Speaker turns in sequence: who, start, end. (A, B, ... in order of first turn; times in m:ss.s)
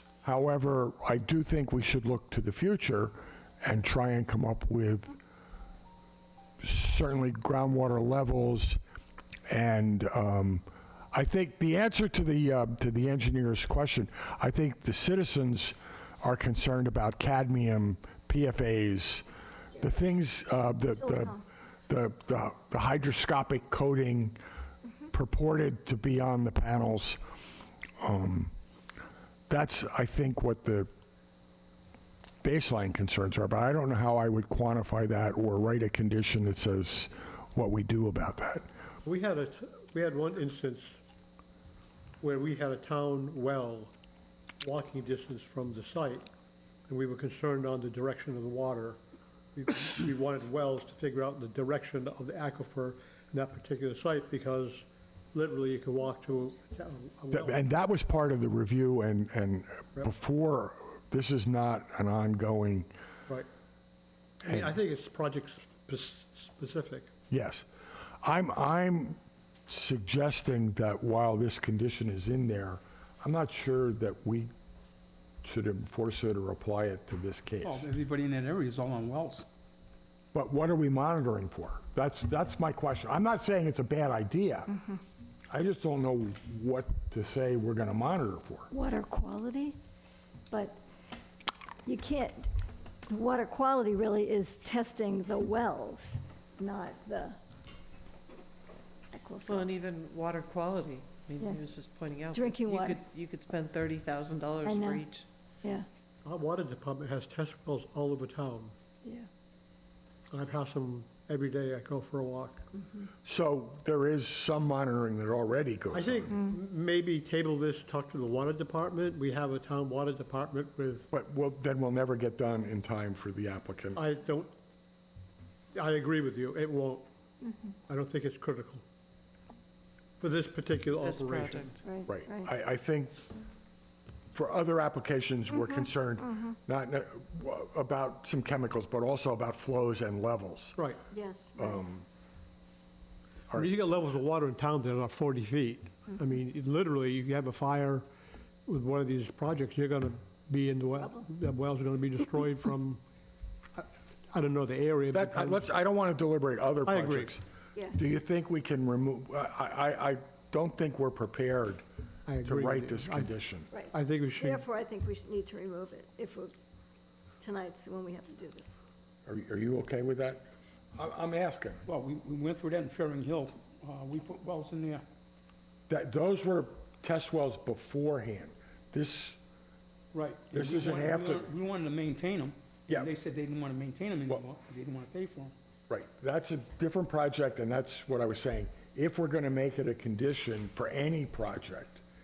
0:00.2-0:05.2 A
0:06.6-0:08.8 A
0:09.5-0:19.2 A
0:19.8-0:21.4 A
0:20.9-0:21.4 B
0:21.9-0:24.4 A
0:25.1-0:27.2 A
0:28.0-0:28.5 A
0:29.5-0:30.9 A
0:32.4-0:38.7 A
0:39.0-0:41.0 C
0:42.2-0:43.9 C
0:44.6-0:46.2 C
0:46.9-0:49.0 C
0:49.6-0:57.6 C
0:57.3-1:02.9 A
1:04.4-1:07.1 C
1:07.3-1:07.7 A
1:08.2-1:14.5 A
1:15.4-1:17.9 A
1:17.6-1:19.5 D
1:20.3-1:24.8 A
1:25.5-1:28.7 A
1:28.7-1:29.8 B
1:30.5-1:30.8 B
1:31.9-1:32.5 B
1:33.1-1:37.4 B
1:39.1-1:39.8 B
1:39.5-1:45.0 E
1:41.3-1:41.6 B
1:42.3-1:43.0 B
1:44.6-1:45.9 B
1:46.2-1:48.7 C
1:50.3-1:52.7 C
1:53.2-1:56.4 A
1:55.9-2:01.1 C
2:01.1-2:04.0 A
2:04.0-2:04.5 C
2:05.8-2:07.0 C
2:07.5-2:07.7 B
2:07.9-2:08.8 C
2:10.2-2:11.7 C
2:11.0-2:11.6 E
2:11.8-2:12.5 B
2:12.1-2:13.2 A
2:14.3-2:20.8 A
2:21.1-2:21.8 B
2:21.6-2:22.1 A
2:23.5-2:28.1 C
2:28.7-2:33.0 C
2:33.8-2:35.6 C
2:35.1-2:37.4 A
2:36.9-2:37.3 C
2:37.9-2:41.8 A
2:42.3-2:43.4 C
2:42.4-2:43.7 A
2:43.7-2:46.5 B
2:43.9-2:44.6 C
2:47.4-2:48.8 B
2:49.3-2:51.8 A
2:51.9-2:55.0 D
2:55.9-2:59.4 A
3:00.1-3:05.5 D
3:00.5-3:01.5 A
3:05.9-3:12.0 A